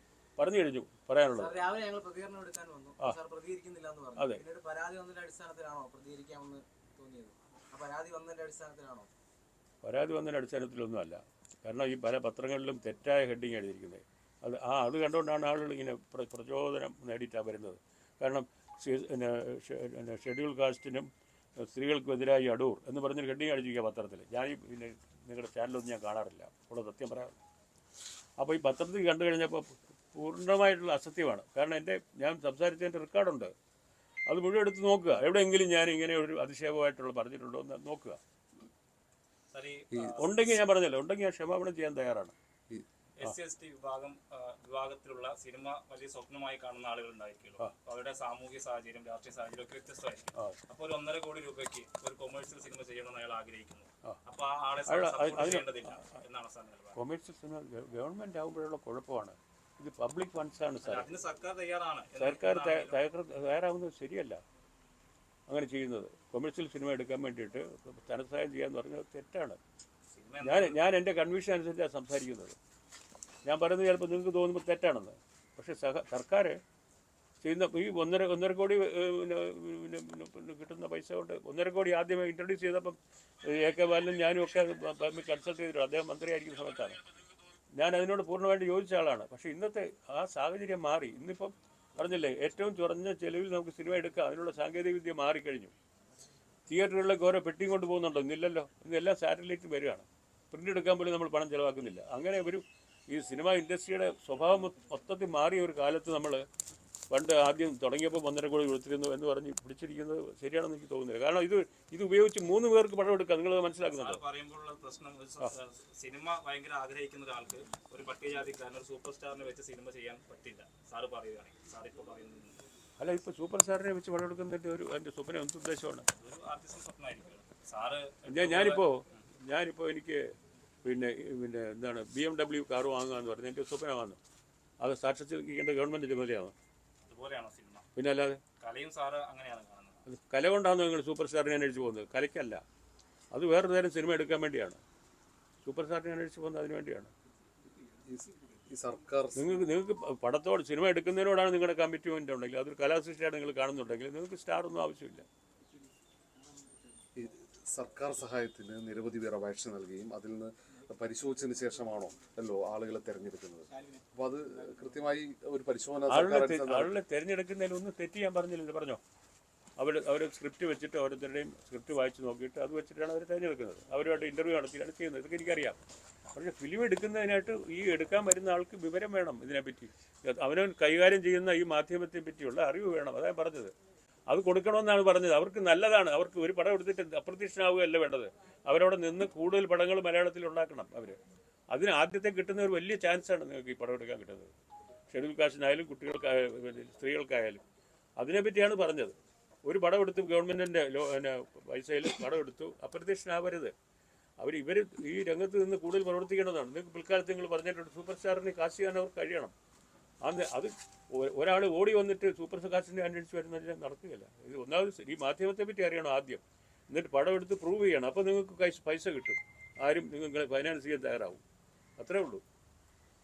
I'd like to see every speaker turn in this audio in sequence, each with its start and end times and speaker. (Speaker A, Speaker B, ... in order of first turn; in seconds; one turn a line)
Speaker A: 0.4-1.6
Speaker B: 1.3-9.1
Speaker A: 4.2-4.4
Speaker A: 9.8-27.4
Speaker A: 28.4-33.5
Speaker A: 34.3-38.2
Speaker C: 39.5-40.6
Speaker A: 40.1-42.3
Speaker C: 43.2-57.0
Speaker A: 54.9-55.7
Speaker A: 57.0-61.1
Speaker C: 60.8-63.0
Speaker A: 62.2-64.4
Speaker A: 65.5-69.6
Speaker C: 70.1-70.8
Speaker A: 70.4-72.6
Speaker A: 73.5-76.6
Speaker A: 77.4-87.0
Speaker A: 87.8-95.7
Speaker A: 96.7-106.5
Speaker A: 107.1-114.2
Speaker C: 113.9-122.6
Speaker A: 123.0-126.1
Speaker C: 126.2-129.3
Speaker A: 128.3-130.3
Speaker A: 130.8-134.2
Speaker A: 134.8-136.5
Speaker C: 137.1-137.9
Speaker A: 137.9-138.4
Speaker C: 138.6-140.0
Speaker A: 140.1-142.6
Speaker A: 143.3-144.8
Speaker A: 145.6-147.1
Speaker D: 148.1-149.5
Speaker A: 149.4-155.2
Speaker D: 157.2-166.9
Speaker A: 166.1-169.0
Speaker A: 169.8-175.8
Speaker A: 176.3-183.7
Speaker A: 184.3-191.2
Speaker A: 191.7-194.5
Speaker A: 195.1-197.6
Speaker A: 198.2-203.7
Speaker A: 204.4-209.5
Speaker A: 210.2-221.4
Speaker A: 222.0-222.4